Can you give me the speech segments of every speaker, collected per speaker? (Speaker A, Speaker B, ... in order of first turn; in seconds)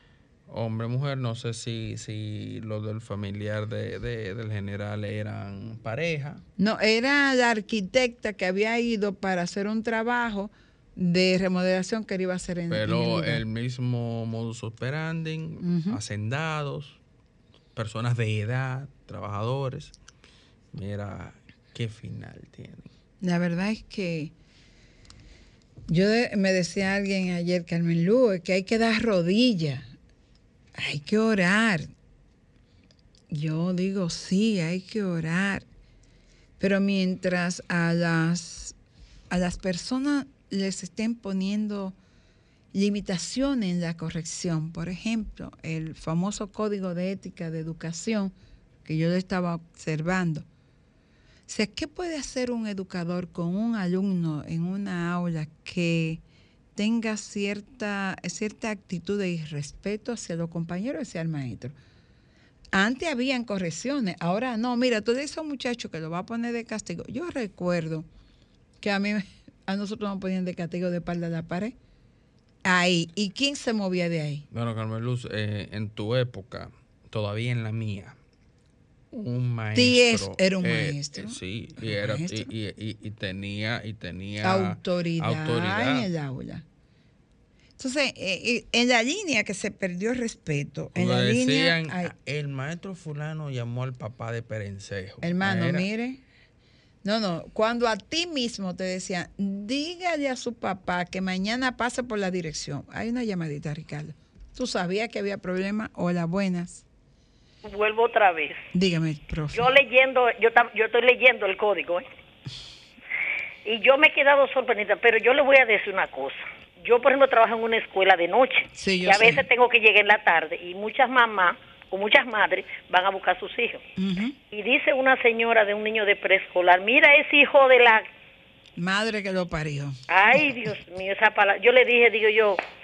Speaker A: 0.5-6.4, 12.7-17.0, 17.7-19.9, 20.7-22.9, 74.5-78.2, 79.1-86.1, 90.9-95.9
Speaker B: 6.6-13.4, 15.6-16.0, 23.2-24.3, 25.9-29.9, 30.8-31.9, 33.3-35.6, 36.6-38.7, 39.3-42.0, 42.7-48.3, 48.8-50.5, 51.5-56.2, 56.8-61.7, 62.7-68.1, 68.8-71.7, 72.6-74.4, 79.7-82.5, 84.4-86.6, 87.8-92.1, 95.2-96.2, 97.0-106.8, 108.7-109.7, 118.7-119.4, 124.0-124.3, 128.8-130.0
Speaker C: 107.6-108.6, 109.5-112.0, 113.6-123.8, 124.5-128.0, 130.1-132.6